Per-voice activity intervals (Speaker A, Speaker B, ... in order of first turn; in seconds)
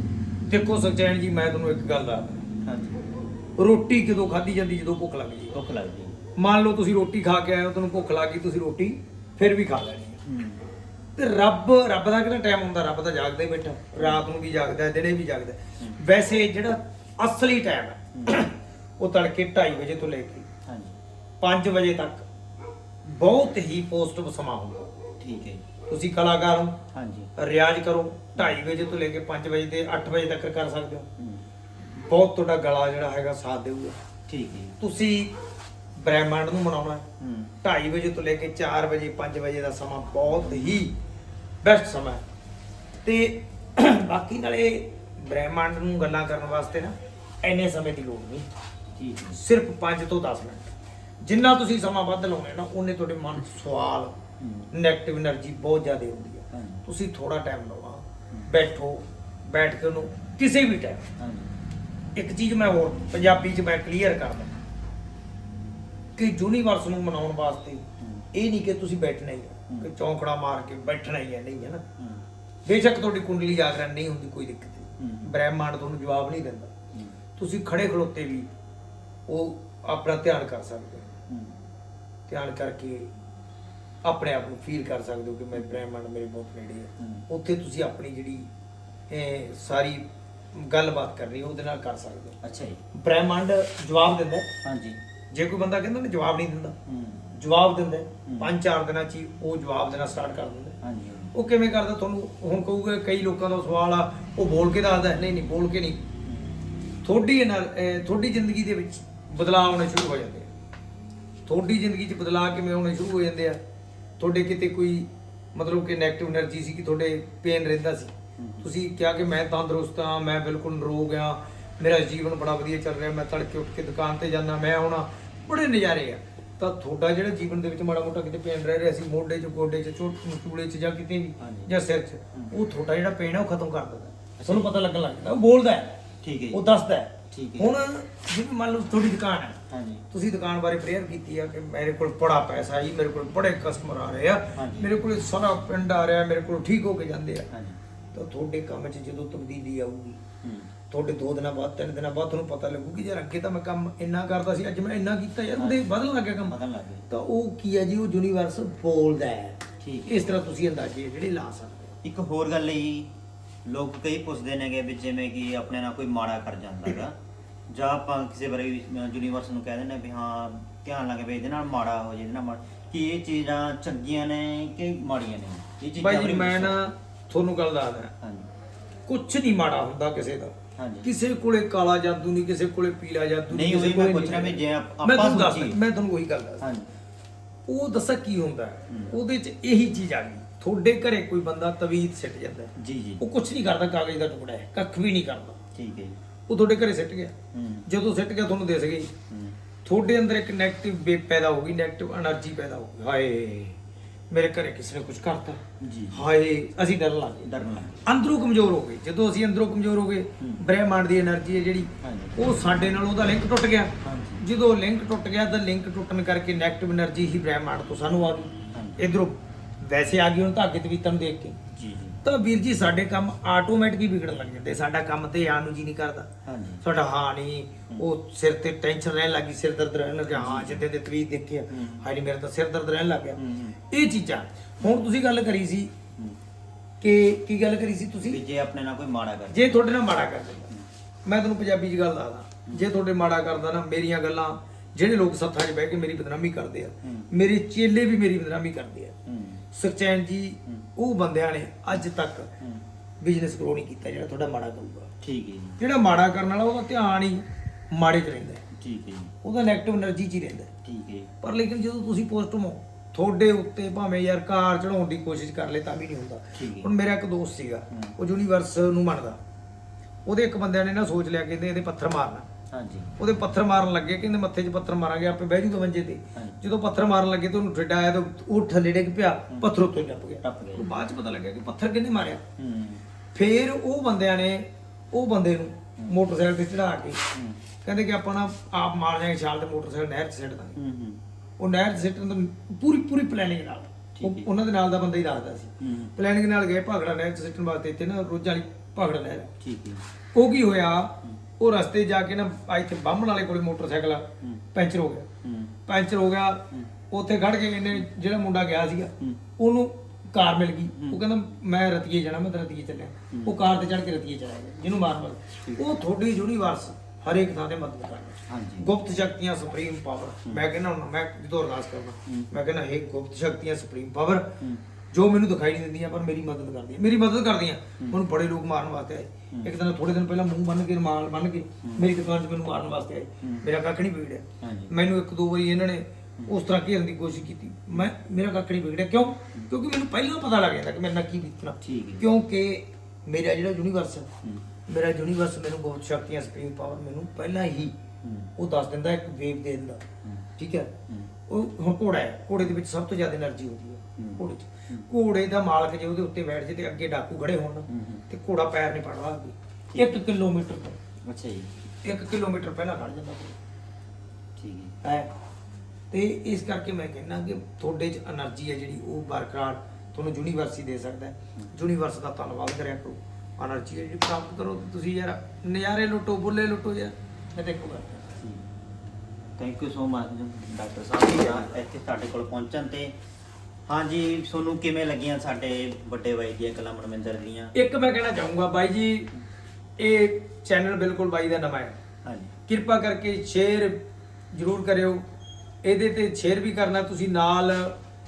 Speaker A: 0.5-2.4, 3.6-5.5, 6.3-10.2, 11.2-20.5, 21.4-22.3, 23.0-24.9, 25.9-26.8, 27.4-31.1, 31.8-34.0, 34.8-35.3, 36.0-37.1, 37.6-40.9, 41.6-42.2, 43.0-48.5, 49.3-50.7, 51.2-54.2, 54.7-61.0, 62.1-64.6, 66.2-71.8, 72.6-76.7, 77.4-78.5, 79.3-81.1, 82.3-83.1, 84.0-88.5, 89.1-92.4, 92.9-94.5, 95.3-96.8, 97.3-100.8, 101.3-106.0, 107.0-110.5, 111.4-113.6, 114.2-136.0, 136.5-139.6, 140.1-147.5, 148.1-150.2, 150.9-156.6, 157.1-161.9, 176.0-178.1, 179.1-186.6, 187.7-195.6, 196.5-197.3, 197.9-199.1, 199.8-203.8, 204.3-205.6, 206.1-207.5, 208.0-221.6, 222.2-226.3, 226.8-233.4, 233.9-235.9, 237.0-238.4, 239.5-240.7, 241.2-249.1, 249.7-252.5, 253.2-255.1, 255.8-258.6, 259.4-260.7, 261.4-269.4, 270.2-272.5, 273.2-282.4, 283.3-287.2, 287.8-290.8, 291.6-299.5, 300.3-305.3, 305.9-324.5, 325.1-344.3, 344.9-347.9, 348.6-350.0, 350.6-350.9, 351.5-361.0, 362.0-363.6, 365.0-365.3, 366.1-378.2, 387.7-389.3, 390.0-392.0, 392.7-394.0, 394.5-395.2, 395.8-397.9
Speaker B: 2.6-3.0, 5.5-6.2, 10.2-10.6, 14.0-14.3, 20.6-21.0, 25.2-25.6, 26.9-27.3, 34.3-34.8, 37.2-37.5, 49.0-49.4, 54.4-54.7, 56.5-56.8, 61.2-61.5, 75.0-75.3, 81.3-81.6, 87.0-87.2, 92.4-92.8, 94.6-95.0, 96.9-97.2, 98.2-98.5, 100.8-101.3, 106.2-106.5, 118.4-118.7, 131.4-131.7, 134.4-134.7, 136.2-136.6, 137.3-137.7, 139.7-140.0, 144.6-144.9, 147.5-147.8, 150.4-150.7, 155.6-155.9, 156.5-157.1, 159.8-160.3, 162.0-163.1, 163.6-167.2, 167.7-176.8, 178.2-178.5, 180.8-181.1, 183.5-185.8, 186.6-186.9, 192.8-193.2, 195.7-196.2, 197.5-197.9, 199.3-199.6, 205.8-206.2, 207.4-208.0, 212.0-212.4, 214.0-214.4, 218.7-219.1, 221.7-222.2, 226.4-226.8, 230.3-230.8, 231.7-232.0, 233.3-233.8, 238.2-239.8, 247.0-247.3, 249.3-249.6, 255.2-255.8, 258.8-259.3, 260.8-261.3, 266.5-266.9, 272.7-273.1, 276.3-276.6, 280.4-280.9, 282.6-283.0, 287.3-287.6, 290.8-291.2, 294.1-294.5, 295.8-296.1, 299.6-300.0, 305.4-305.7, 313.3-313.6, 318.5-318.9, 334.6-334.9, 341.8-342.3, 348.2-348.5, 354.2-355.1, 357.9-358.2, 361.3-361.8, 364.6-364.9, 379.6-383.1, 383.9-387.7, 392.2-392.5